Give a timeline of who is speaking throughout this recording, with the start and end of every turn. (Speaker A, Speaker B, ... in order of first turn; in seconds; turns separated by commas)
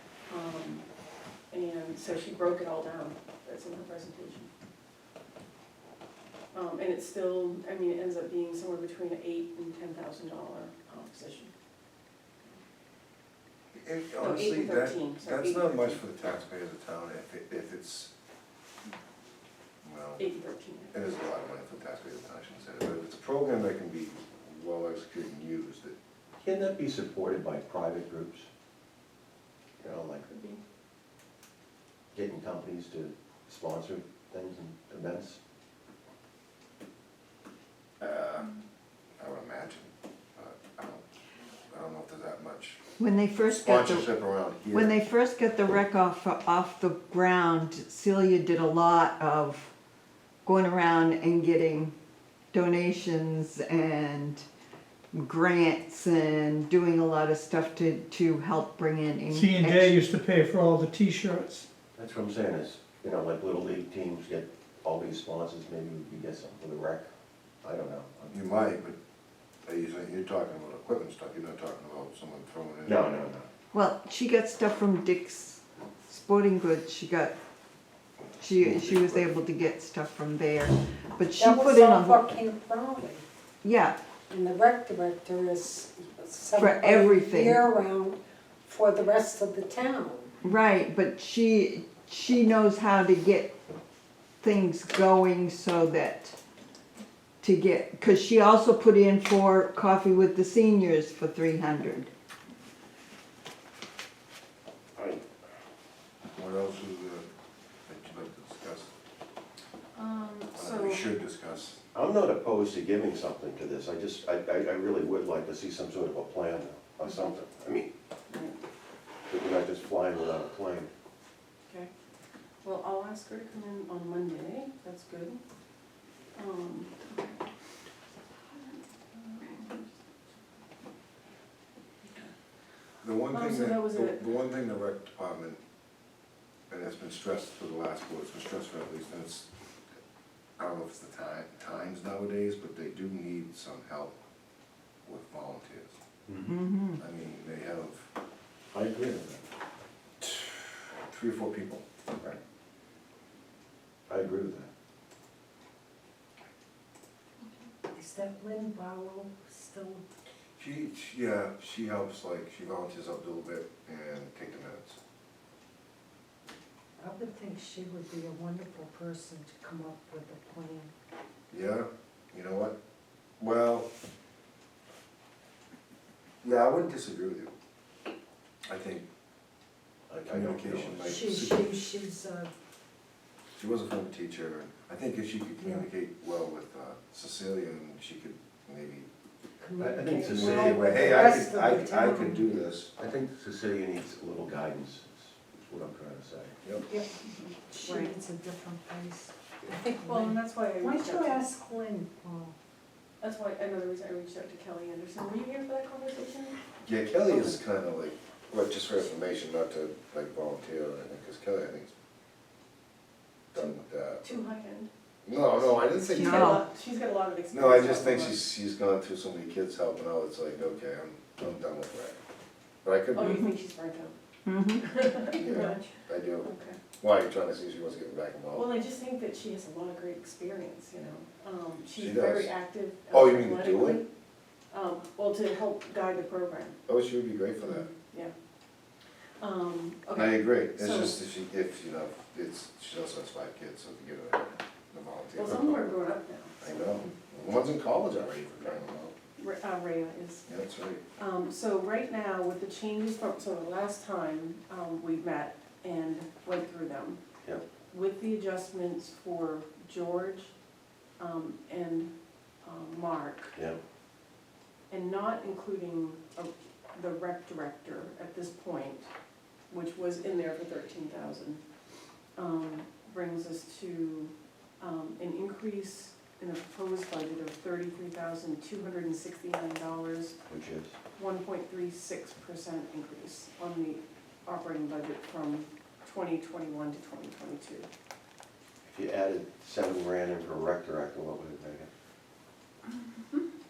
Speaker A: 0.3-0.8, Speaker A: 1.5-4.5, Speaker A: 6.5-11.5, Speaker B: 13.7-18.1, Speaker A: 14.2-16.0, Speaker B: 19.8-20.2, Speaker A: 20.2-21.0, Speaker B: 20.9-25.9, Speaker C: 26.4-28.5, Speaker C: 29.8-30.2, Speaker A: 30.2-30.6, Speaker C: 32.1-35.4, Speaker B: 38.0-38.5, Speaker B: 39.2-41.0, Speaker B: 41.7-42.8, Speaker D: 43.0-44.1, Speaker B: 43.5-45.0, Speaker D: 44.7-49.7, Speaker D: 50.5-51.9, Speaker D: 52.5-54.5, Speaker D: 55.1-60.0, Speaker E: 59.3-61.7, Speaker C: 62.0-67.1, Speaker C: 67.6-68.4, Speaker B: 68.3-69.0, Speaker B: 69.6-73.1, Speaker C: 72.8-73.5, Speaker D: 73.7-77.3, Speaker D: 78.4-82.2, Speaker B: 78.5-79.2, Speaker F: 81.4-83.2, Speaker D: 83.6-84.0, Speaker F: 84.3-90.3, Speaker D: 86.5-87.6, Speaker D: 90.4-93.5, Speaker D: 94.4-96.4, Speaker D: 97.4-102.1, Speaker C: 105.0-105.2, Speaker B: 106.3-107.2, Speaker B: 107.9-108.9, Speaker A: 109.9-111.1, Speaker B: 110.5-111.8, Speaker C: 111.9-117.9, Speaker A: 118.3-118.6, Speaker C: 119.3-120.9, Speaker A: 122.6-125.4, Speaker A: 126.4-127.5, Speaker A: 128.5-130.1, Speaker A: 132.1-132.3, Speaker B: 133.0-135.6, Speaker A: 133.3-134.2, Speaker B: 136.7-139.5, Speaker B: 140.6-144.2, Speaker B: 145.1-145.9, Speaker C: 146.3-146.5, Speaker D: 146.4-147.0, Speaker B: 147.0-148.1, Speaker C: 148.7-149.4, Speaker B: 150.2-151.8, Speaker C: 154.1-154.7, Speaker F: 157.9-160.0, Speaker B: 160.6-165.0, Speaker F: 167.0-170.9, Speaker B: 171.5-172.8, Speaker B: 173.4-173.9, Speaker B: 176.4-177.5, Speaker B: 178.7-179.1, Speaker C: 180.1-181.2, Speaker B: 180.3-181.8, Speaker F: 181.0-182.5, Speaker B: 183.6-189.1, Speaker F: 185.6-185.9, Speaker F: 189.6-192.5, Speaker C: 189.8-191.4, Speaker B: 190.2-192.9, Speaker C: 193.0-196.6, Speaker F: 196.8-197.1, Speaker A: 197.3-198.2, Speaker F: 197.7-202.6, Speaker A: 200.0-201.4, Speaker A: 203.2-206.6, Speaker B: 206.8-211.9, Speaker A: 207.3-207.6, Speaker B: 213.5-214.4, Speaker A: 213.6-218.4, Speaker B: 215.2-216.6, Speaker D: 216.1-216.6, Speaker B: 217.5-222.2, Speaker B: 222.8-223.4, Speaker A: 223.1-224.2, Speaker D: 224.5-225.0, Speaker A: 224.8-225.9, Speaker B: 225.3-226.5, Speaker A: 226.4-226.8, Speaker B: 227.0-228.8, Speaker A: 228.5-234.1, Speaker B: 232.0-232.5, Speaker B: 233.1-234.0, Speaker A: 234.7-236.8, Speaker B: 236.9-237.9, Speaker A: 237.6-238.3, Speaker A: 239.4-241.2, Speaker B: 240.2-246.0, Speaker A: 245.4-247.1, Speaker B: 246.6-249.2, Speaker A: 249.4-250.4, Speaker B: 250.5-251.0, Speaker A: 251.2-257.2, Speaker A: 257.9-260.5, Speaker A: 261.2-262.1, Speaker A: 262.6-263.6, Speaker C: 263.5-263.8, Speaker A: 264.9-269.1, Speaker A: 269.7-271.6, Speaker A: 272.4-280.3, Speaker C: 280.5-281.0, Speaker A: 281.1-287.9, Speaker C: 288.8-291.9, Speaker A: 293.1-293.4